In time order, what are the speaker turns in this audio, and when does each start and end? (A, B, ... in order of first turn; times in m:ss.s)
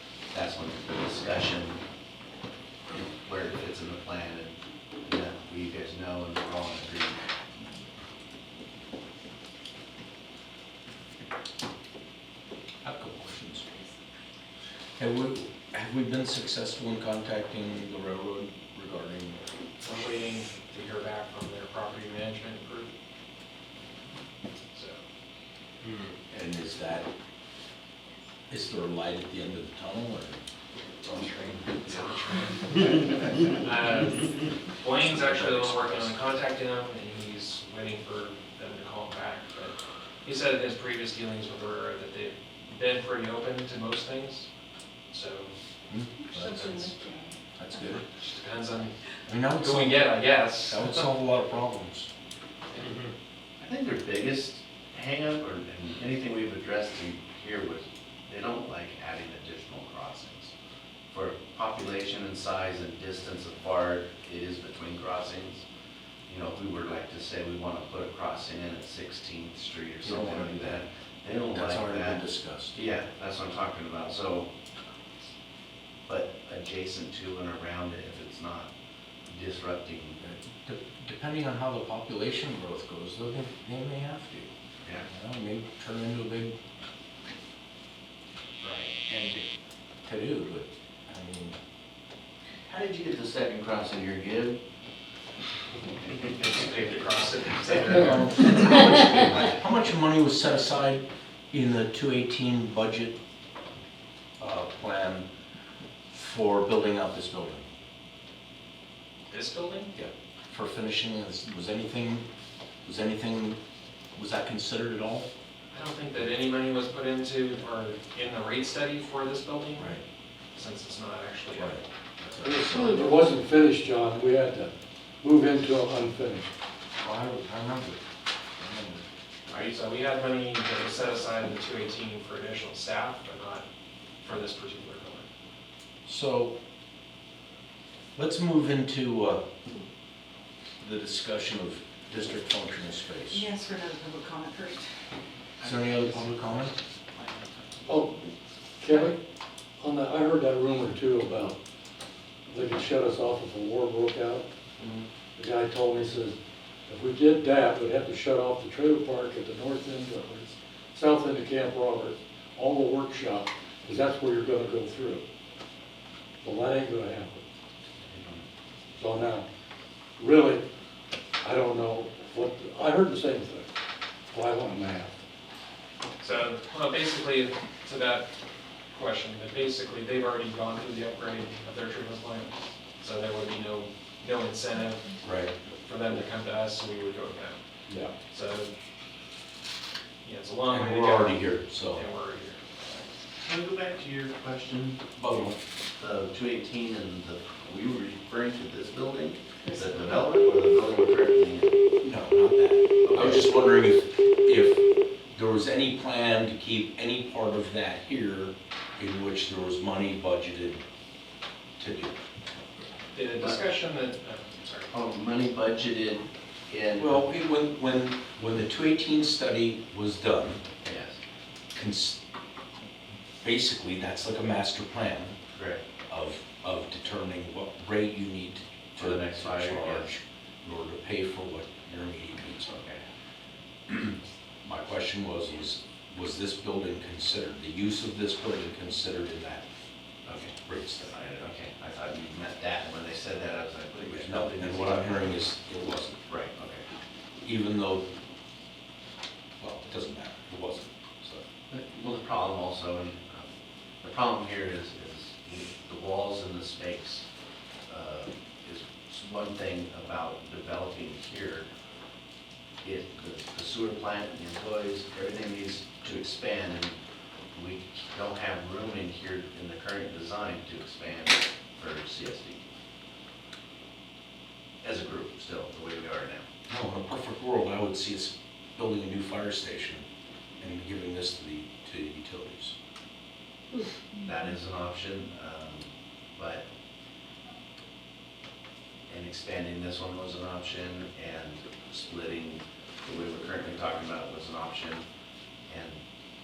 0:00.3-0:01.8 A
0:02.9-0:07.2 A
0:12.8-0:13.6 B
0:15.0-0:19.4 B
0:19.8-0:22.9 C
0:24.7-0:25.0 C
0:26.3-0:27.1 B
0:28.5-0:30.4 B
0:31.0-0:32.1 B
0:31.8-0:44.5 C
0:35.0-0:36.2 B
0:45.1-0:45.5 C
0:45.9-0:46.8 B
0:46.3-0:47.0 C
0:46.9-0:47.3 D
0:47.6-0:48.0 B
0:48.1-0:49.0 C
0:49.2-0:50.1 B
0:49.5-0:51.1 C
0:50.6-0:52.1 B
0:53.6-1:00.5 A
1:01.1-1:05.6 A
1:06.3-1:12.2 A
1:10.0-1:10.8 B
1:11.5-1:12.8 B
1:12.7-1:14.5 A
1:16.0-1:18.7 A
1:19.3-1:20.2 A
1:20.2-1:24.5 B
1:24.8-1:25.1 A
1:25.1-1:26.6 B
1:28.6-1:28.9 C
1:29.1-1:29.4 B
1:30.0-1:31.6 B
1:32.7-1:34.6 A
1:36.3-1:38.5 C
1:37.8-1:43.2 B
1:44.4-1:45.3 B
1:46.1-1:47.6 B
1:49.3-1:49.9 C
1:49.9-1:52.2 B
1:52.8-1:53.6 B
1:54.1-1:55.3 B
1:55.7-2:00.0 C
1:59.8-2:00.0 B
2:00.5-2:01.8 C
2:01.5-2:03.2 B
2:02.4-2:06.5 E
2:07.0-2:08.0 B
2:08.6-2:09.0 B
2:09.5-2:13.6 C
2:14.2-2:15.3 C
2:16.0-2:16.6 B
2:18.1-2:19.4 B
2:20.8-2:23.5 B
2:23.3-2:24.9 D
2:25.6-2:26.6 A
2:25.6-2:26.7 B
2:27.2-2:27.5 A
2:27.9-2:29.2 E
2:29.8-2:31.6 E
2:32.5-2:34.4 E
2:34.8-2:35.0 C
2:35.4-2:36.4 E
2:36.9-2:45.2 E
2:46.4-2:47.4 E
2:48.0-2:48.4 A
2:49.0-2:49.5 E
2:50.2-2:50.6 E
2:51.4-2:53.7 E
2:54.3-2:55.2 E
2:56.2-2:58.3 C
2:58.9-3:05.2 C
3:05.2-3:05.5 B
3:05.8-3:07.6 C
3:07.9-3:08.1 B
3:08.3-3:08.7 C
3:10.2-3:12.6 C
3:10.7-3:12.0 B
3:13.4-3:21.7 A
3:15.2-3:15.6 B
3:19.6-3:19.9 D
3:22.0-3:30.8 B
3:23.0-3:23.5 A
3:31.8-3:32.1 B
3:33.1-3:34.9 C
3:34.9-3:37.2 A
3:37.0-3:40.6 B
3:40.8-3:41.2 A
3:41.7-3:42.2 B
3:43.4-3:45.4 B
3:45.5-3:45.8 A
3:46.1-3:52.9 B
3:49.0-3:50.1 A
3:53.9-3:59.6 B
4:00.2-4:05.3 A
4:00.6-4:01.1 B
4:04.1-4:06.2 B
4:06.3-4:06.8 A
4:07.4-4:08.1 B
4:09.6-4:11.4 B
4:11.7-4:13.5 A
4:14.0-4:17.2 A
4:17.9-4:21.7 A
4:22.8-4:27.0 A
4:27.5-4:32.6 A
4:34.8-4:36.5 A
4:36.7-4:40.0 B
4:40.6-4:42.7 B
4:44.2-4:46.7 A
4:49.1-4:55.0 A
4:55.7-4:56.0 A